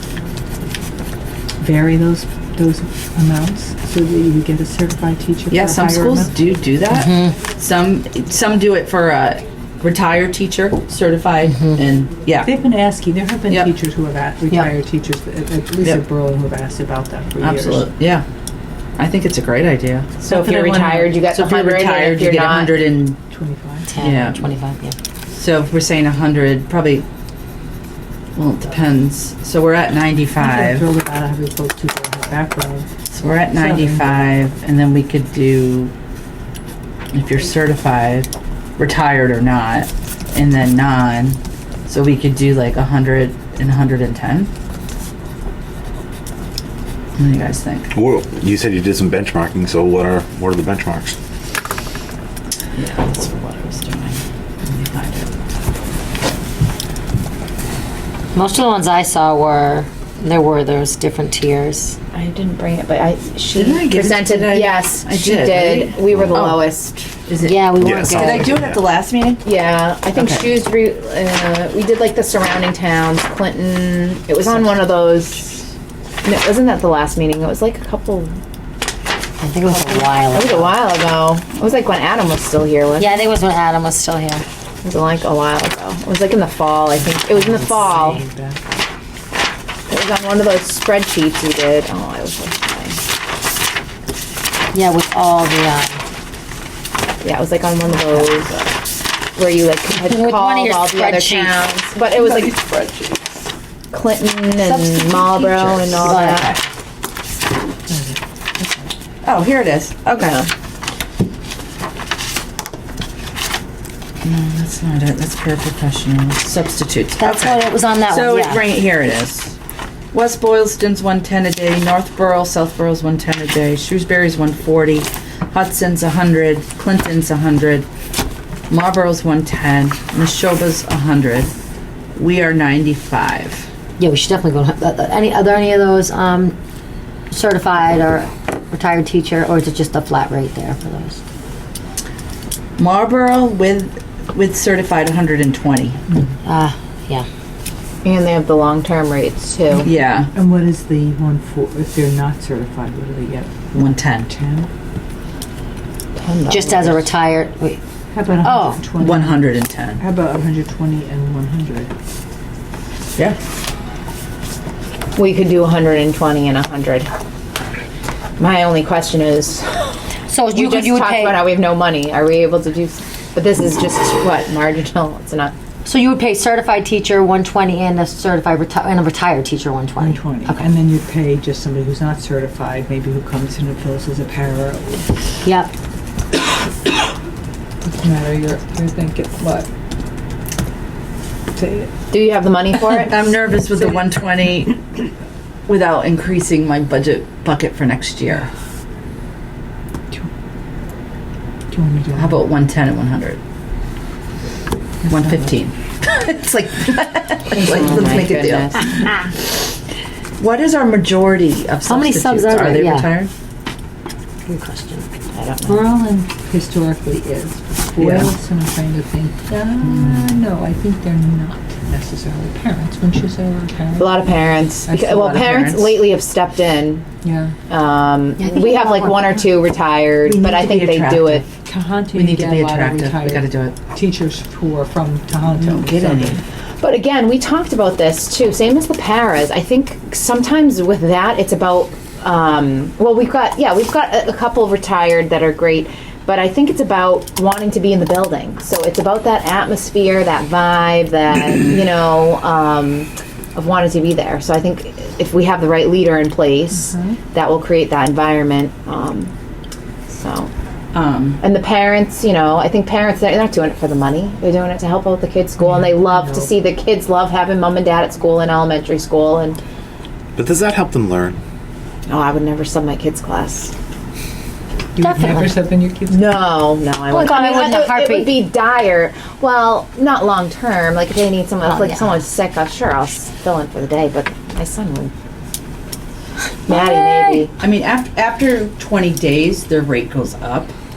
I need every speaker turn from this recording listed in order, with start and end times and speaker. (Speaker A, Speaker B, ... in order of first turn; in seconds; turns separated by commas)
Speaker A: 1.6-6.3, Speaker B: 5.5-12.5, Speaker C: 6.9-7.3, Speaker A: 12.4-17.9, Speaker B: 17.4-18.2, Speaker B: 19.0-20.1, Speaker D: 20.2-22.8, Speaker A: 20.2-21.2, Speaker B: 21.3-23.2, Speaker A: 23.3-23.9, Speaker C: 23.9-24.9, Speaker B: 24.0-24.4, Speaker B: 25.3-27.1, Speaker B: 28.3-30.9, Speaker A: 30.4-34.4, Speaker B: 33.1-35.9, Speaker B: 37.1-44.5, Speaker B: 47.1-47.9, Speaker E: 47.9-51.1, Speaker B: 52.7-55.3, Speaker C: 58.3-62.0, Speaker D: 62.1-67.1, Speaker B: 63.5-66.6, Speaker E: 66.1-66.5, Speaker B: 67.3-69.4, Speaker C: 67.4-68.6, Speaker E: 67.8-68.9, Speaker D: 69.4-75.4, Speaker B: 70.1-70.5, Speaker D: 76.2-78.3, Speaker C: 79.4-80.8, Speaker D: 79.7-83.3, Speaker C: 83.0-84.4, Speaker D: 84.8-88.2, Speaker A: 87.0-88.6, Speaker D: 89.9-93.0, Speaker C: 94.7-96.0, Speaker D: 97.2-98.6, Speaker D: 99.3-102.6, Speaker C: 99.9-101.5, Speaker B: 102.2-103.2, Speaker D: 103.9-106.6, Speaker C: 104.6-106.6, Speaker B: 106.1-106.5, Speaker A: 107.9-108.9, Speaker B: 109.2-110.4, Speaker D: 110.1-110.5, Speaker B: 114.2-119.5, Speaker C: 117.2-118.6, Speaker B: 120.1-127.9, Speaker B: 128.7-131.5, Speaker B: 132.2-133.7, Speaker C: 134.0-136.6, Speaker C: 137.3-141.2, Speaker B: 142.8-146.0, Speaker C: 146.4-147.3, Speaker D: 148.0-149.9, Speaker B: 149.8-150.3, Speaker A: 150.3-154.7, Speaker B: 153.7-154.3, Speaker D: 156.2-157.1, Speaker C: 156.5-157.8, Speaker A: 158.1-159.5, Speaker C: 158.4-158.8, Speaker B: 159.0-160.0, Speaker A: 160.0-161.9, Speaker D: 165.1-167.1, Speaker D: 168.4-169.9, Speaker C: 170.3-171.4, Speaker D: 170.5-175.5, Speaker C: 175.8-180.6, Speaker A: 180.0-185.2, Speaker C: 185.4-185.7, Speaker A: 187.8-189.7, Speaker A: 191.6-191.9, Speaker D: 192.1-193.2, Speaker B: 192.8-194.8, Speaker B: 195.7-198.5, Speaker A: 201.7-202.5, Speaker B: 202.2-203.4, Speaker A: 205.0-205.5, Speaker B: 205.0-209.3, Speaker D: 207.5-208.8, Speaker B: 210.4-213.3, Speaker C: 211.8-213.1, Speaker C: 214.4-215.1, Speaker D: 215.3-215.8, Speaker A: 215.7-224.2, Speaker B: 218.0-218.3, Speaker B: 219.5-220.3, Speaker D: 224.0-227.0, Speaker B: 224.9-226.0, Speaker A: 227.2-227.5, Speaker D: 227.7-231.4, Speaker C: 228.4-229.5, Speaker B: 230.2-231.5, Speaker A: 231.6-236.4, Speaker B: 232.1-233.8, Speaker B: 235.5-236.4, Speaker D: 236.8-259.3, Speaker A: 256.7-257.2, Speaker D: 260.1-260.5, Speaker B: 260.9-261.4, Speaker D: 261.4-269.6, Speaker A: 265.6-266.5, Speaker E: 270.4-271.4, Speaker D: 272.1-273.7, Speaker A: 274.9-276.5, Speaker C: 275.0-275.6, Speaker D: 276.1-285.1, Speaker C: 277.1-278.4, Speaker C: 281.6-282.1, Speaker D: 286.7-287.5, Speaker C: 286.7-287.5, Speaker B: 287.6-290.7